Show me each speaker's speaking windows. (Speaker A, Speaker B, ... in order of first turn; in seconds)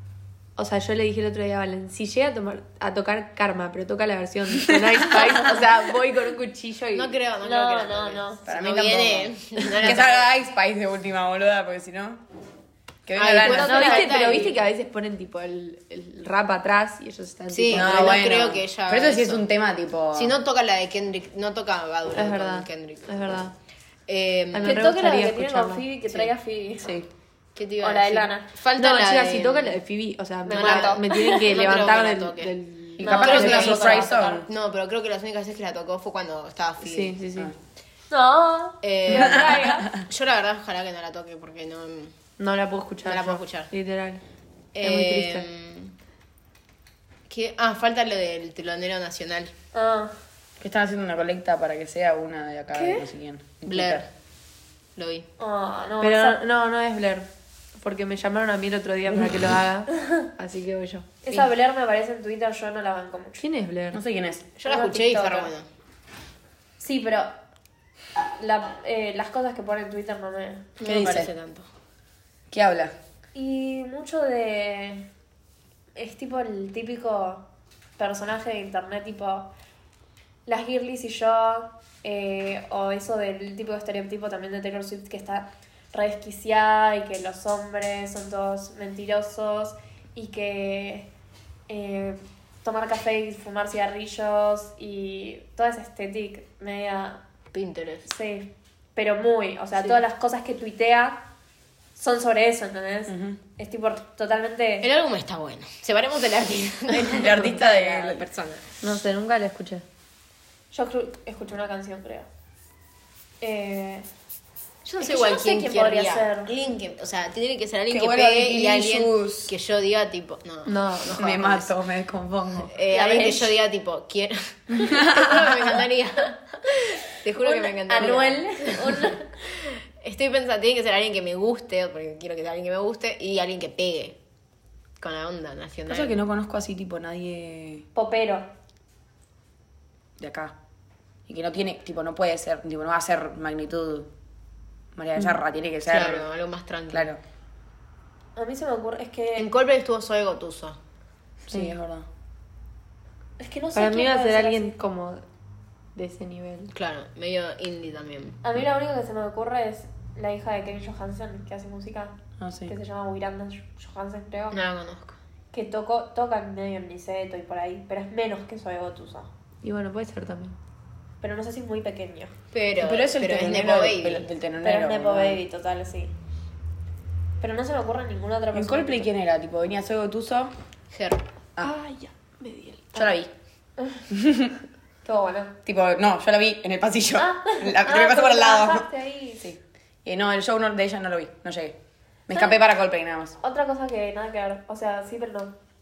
Speaker A: 0.6-7.1, 13.4-18.3, 22.1-23.5, 24.5-25.9, 28.7-34.2, 36.8-37.5, 42.4-44.2, 44.8-45.5, 56.0-61.1, 63.4-64.0, 108.8-109.8, 120.7-121.2, 153.7-155.2, 155.9-156.7, 169.6-170.6, 181.6-183.1
Speaker B: 6.9-10.3, 13.1-14.6, 17.5-19.4, 20.1-23.4, 24.1-24.9, 26.1-26.3, 27.5-29.8, 30.5-37.2, 38.8-42.1, 43.0-43.7, 44.7-45.9, 47.3-49.5, 53.7-54.1, 55.0-55.3, 64.6-65.7, 70.8-71.7, 97.5-98.1, 104.8-108.7, 114.8-121.7, 122.7-134.2, 135.0-136.2, 145.9-147.1, 149.4-150.8, 156.7-158.4, 164.5-165.2, 172.5-174.3, 180.9-181.2
Speaker C: 7.4-8.4, 24.6-26.9, 27.8-28.4, 30.4-31.5, 33.0-34.0, 38.1-39.9, 49.7-50.1, 52.7-53.0, 55.4-56.4, 60.0-60.3, 61.2-63.4, 64.7-65.5, 66.8-67.3, 68.4-70.7, 73.3-75.1, 76.0-77.5, 78.0-79.5, 80.5-91.1, 91.7-97.2, 98.1-101.3, 102.0-104.9, 110.7-112.3, 113.4-114.1, 115.0-116.5, 122.9-123.5, 127.4-129.3, 137.9-138.5, 148.3-149.5, 153.4-154.7, 158.4-162.2, 162.7-164.6, 165.5-169.3, 171.2-172.3, 174.6-176.1, 177.4-179.1, 183.8-184.0, 185.0-185.5, 187.2-189.5, 193.4-195.5
Speaker D: 8.4-12.2, 13.1-14.3, 17.7-20.4, 26.8-27.1, 33.0-34.5, 39.1-40.0, 50.6-54.0, 59.1-59.5, 63.9-64.5, 70.8-71.3, 72.5-72.9, 103.1-103.4, 106.9-108.2, 117.9-119.5, 121.1-122.7, 124.8-125.6, 135.9-137.9, 140.2-140.5, 141.3-144.1, 144.9-146.3, 146.9-147.2, 151.4-152.1, 162.4-162.7, 172.8-175.4, 178.5-180.5, 182.9-183.3, 184.1-184.5, 185.6-188.9, 189.4-191.8, 192.3-193.4